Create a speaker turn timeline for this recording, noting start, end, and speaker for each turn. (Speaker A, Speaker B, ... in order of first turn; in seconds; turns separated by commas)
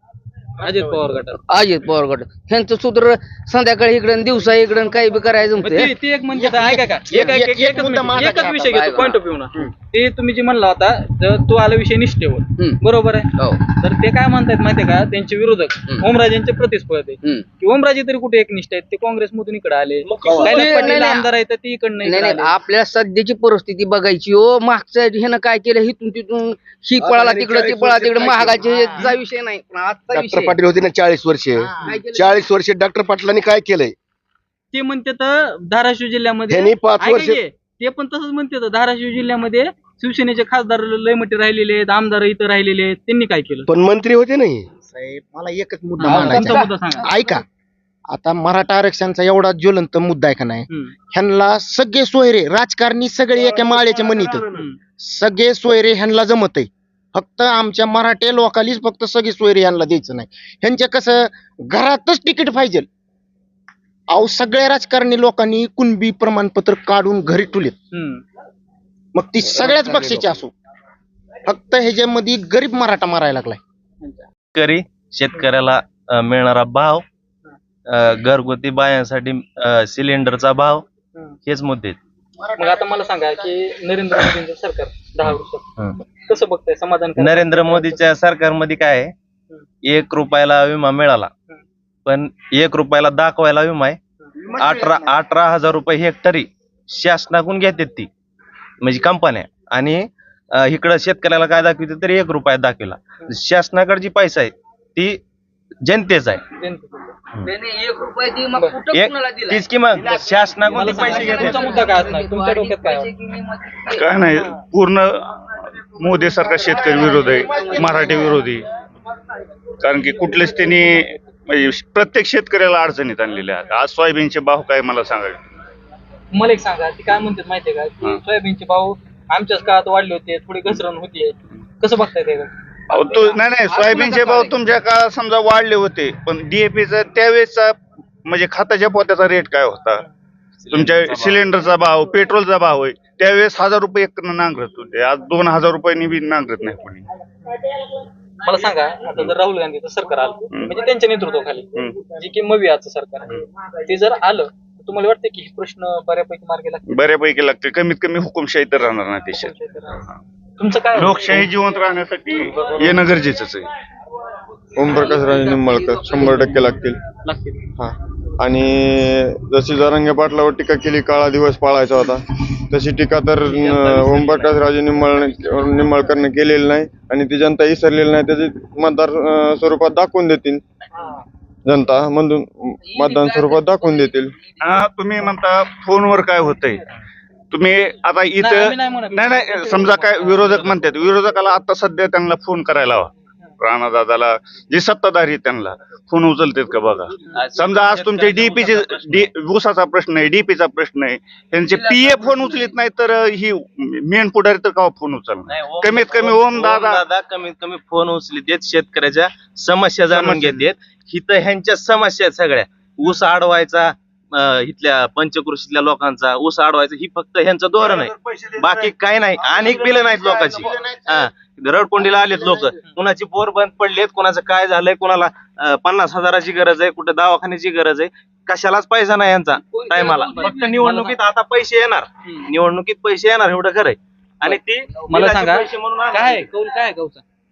Speaker A: 0.6-1.4, Speaker B: 1.5-5.9, Speaker A: 5.6-22.5, Speaker C: 6.4-8.8, Speaker B: 7.1-7.4, Speaker B: 8.1-9.1, Speaker B: 13.4-13.6, Speaker D: 20.2-20.8, Speaker B: 20.3-21.3, Speaker B: 22.0-30.6, Speaker D: 27.0-29.0, Speaker D: 30.1-33.9, Speaker B: 31.8-32.4, Speaker A: 34.7-43.7, Speaker D: 36.5-37.4, Speaker D: 43.7-44.7, Speaker C: 44.9-47.4, Speaker A: 46.0-47.1, Speaker B: 46.3-46.6, Speaker C: 48.1-54.4, Speaker D: 53.4-54.4, Speaker A: 54.5-54.8, Speaker C: 55.0-62.9, Speaker C: 64.1-67.7, Speaker A: 67.9-68.2, Speaker C: 69.1-70.5, Speaker C: 71.5-73.6, Speaker E: 74.6-75.7, Speaker E: 76.3-76.8, Speaker E: 78.3-79.1, Speaker E: 79.8-80.5, Speaker E: 81.5-81.8, Speaker A: 82.5-85.7, Speaker A: 86.2-88.0, Speaker E: 92.1-93.9, Speaker E: 94.6-96.4, Speaker E: 97.0-98.0, Speaker E: 98.8-100.0, Speaker E: 100.7-105.1, Speaker E: 105.9-106.3, Speaker A: 106.6-107.1, Speaker B: 107.4-109.7, Speaker E: 109.6-111.5, Speaker B: 110.2-114.0, Speaker A: 110.7-113.1, Speaker F: 113.9-118.7, Speaker B: 116.8-118.3, Speaker F: 119.8-125.4, Speaker A: 126.3-132.5, Speaker F: 132.9-140.0, Speaker F: 140.7-147.0, Speaker A: 148.4-157.1, Speaker F: 156.9-159.5, Speaker A: 159.3-160.0, Speaker A: 160.6-161.5, Speaker F: 160.9-163.7, Speaker G: 164.8-167.0, Speaker A: 165.5-167.6, Speaker G: 167.8-180.6, Speaker A: 173.4-174.7, Speaker G: 181.7-184.3, Speaker F: 184.6-186.8, Speaker F: 187.5-207.1, Speaker A: 188.4-190.8, Speaker E: 198.3-198.6, Speaker E: 205.5-213.9, Speaker F: 210.1-210.7, Speaker E: 214.5-233.9, Speaker B: 229.7-230.7, Speaker A: 230.1-231.2, Speaker A: 232.2-232.5, Speaker A: 234.4-237.2, Speaker E: 234.5-235.9